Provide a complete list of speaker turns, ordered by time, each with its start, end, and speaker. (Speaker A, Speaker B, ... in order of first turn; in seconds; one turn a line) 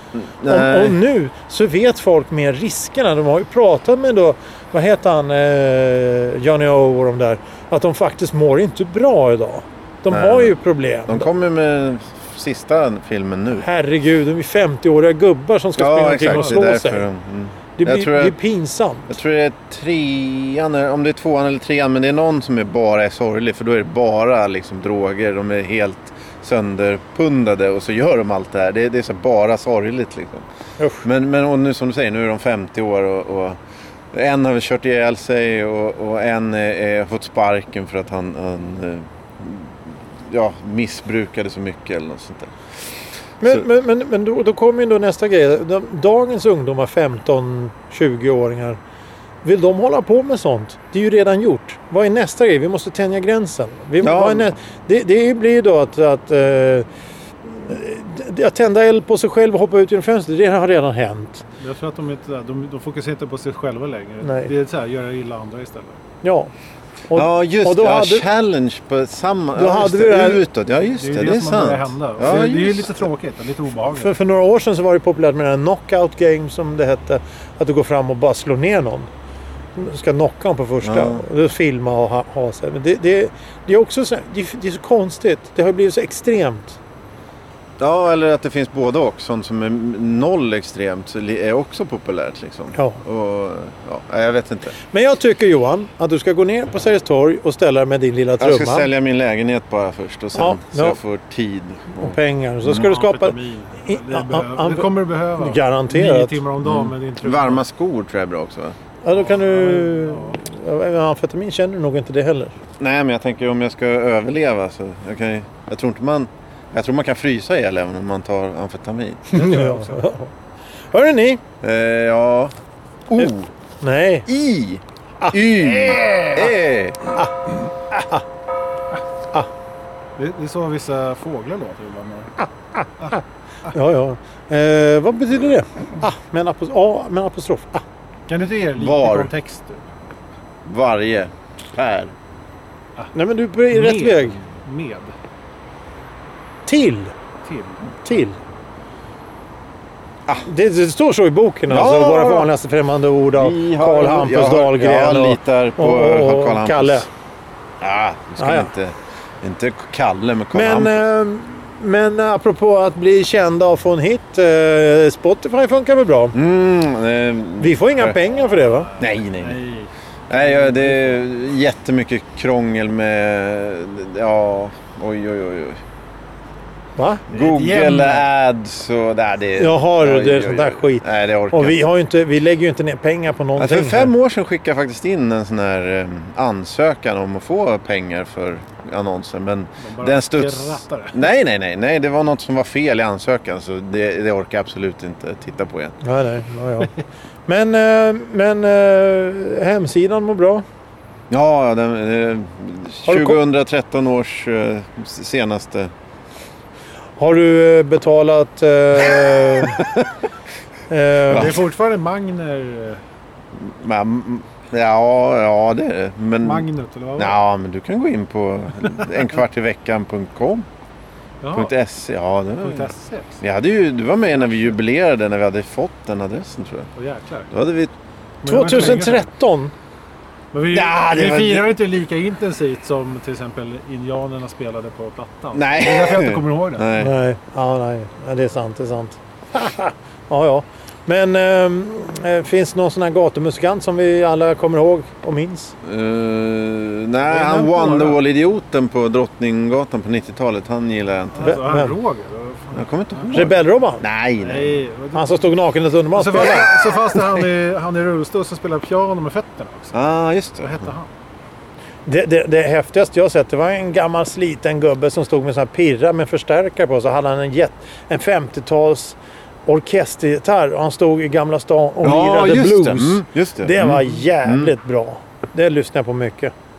Speaker A: 0.1-1.0
Speaker B: 0.5-11.3
Speaker A: 10.1-10.6
Speaker A: 11.1-13.6
Speaker B: 13.6-17.0
Speaker A: 15.8-18.4
Speaker C: 16.3-16.6
Speaker B: 17.8-19.1
Speaker A: 19.1-30.4
Speaker B: 30.8-31.0
Speaker A: 31.0-33.6
Speaker A: 34.1-42.5
Speaker B: 43.4-48.8
Speaker B: 49.4-56.9
Speaker A: 54.0-54.5
Speaker B: 57.5-61.4
Speaker C: 61.6-66.0
Speaker B: 64.2-64.5
Speaker B: 66.2-66.5
Speaker B: 67.1-68.2
Speaker A: 67.1-72.9
Speaker B: 69.5-70.4
Speaker C: 70.9-74.1
Speaker B: 73.9-79.1
Speaker B: 79.8-86.8
Speaker A: 80.8-81.2
Speaker A: 87.8-94.8
Speaker B: 94.9-98.9
Speaker A: 98.4-102.8
Speaker B: 100.3-101.0
Speaker B: 101.9-104.9
Speaker C: 102.7-107.6
Speaker B: 105.4-106.4
Speaker A: 106.6-108.8
Speaker B: 109.0-112.5
Speaker C: 109.2-110.4
Speaker A: 112.8-119.3
Speaker B: 119.3-120.3
Speaker C: 119.3-120.0
Speaker B: 120.9-121.4
Speaker A: 121.6-122.5
Speaker A: 123.1-123.5
Speaker B: 123.8-124.3
Speaker A: 124.3-127.1
Speaker B: 127.9-128.2
Speaker C: 130.2-132.3
Speaker B: 132.4-137.8
Speaker C: 138.3-139.8
Speaker A: 138.8-139.3
Speaker A: 140.6-142.1
Speaker B: 143.1-144.4
Speaker C: 143.7-145.1
Speaker B: 146.7-147.1
Speaker C: 147.4-148.0
Speaker B: 148.0-148.4
Speaker B: 150.4-157.1
Speaker A: 151.7-152.5
Speaker A: 153.3-157.0
Speaker A: 157.8-161.0
Speaker B: 158.4-158.7
Speaker B: 160.5-166.3
Speaker A: 166.3-168.2
Speaker B: 167.6-168.9
Speaker A: 169.0-169.6
Speaker C: 169.3-171.2
Speaker A: 170.3-175.8
Speaker B: 177.0-177.2
Speaker C: 177.3-178.2
Speaker A: 177.3-181.8
Speaker B: 179.6-184.1
Speaker A: 183.6-196.0
Speaker C: 189.8-191.2
Speaker B: 196.0-196.9
Speaker B: 197.5-200.6
Speaker A: 201.3-205.9
Speaker B: 203.1-203.4
Speaker B: 207.2-209.8
Speaker B: 210.9-211.6
Speaker C: 211.3-213.0
Speaker A: 211.3-211.6
Speaker A: 213.6-220.7
Speaker C: 216.4-217.4
Speaker C: 221.4-221.7
Speaker A: 221.5-226.9
Speaker C: 222.6-223.4
Speaker C: 224.4-224.8
Speaker C: 226.9-227.5
Speaker A: 227.5-227.9
Speaker C: 228.4-229.3
Speaker B: 228.4-229.7
Speaker C: 230.5-236.9
Speaker A: 230.7-231.7
Speaker A: 235.5-237.1
Speaker B: 236.9-245.7
Speaker A: 245.8-251.6
Speaker C: 247.2-248.2
Speaker C: 251.3-253.3
Speaker B: 251.4-251.9
Speaker A: 252.7-254.8
Speaker B: 253.3-254.0
Speaker C: 254.4-255.5
Speaker B: 255.1-256.7
Speaker C: 256.1-260.0
Speaker A: 259.9-260.9
Speaker C: 260.6-261.1
Speaker B: 262.1-276.5
Speaker A: 272.0-274.7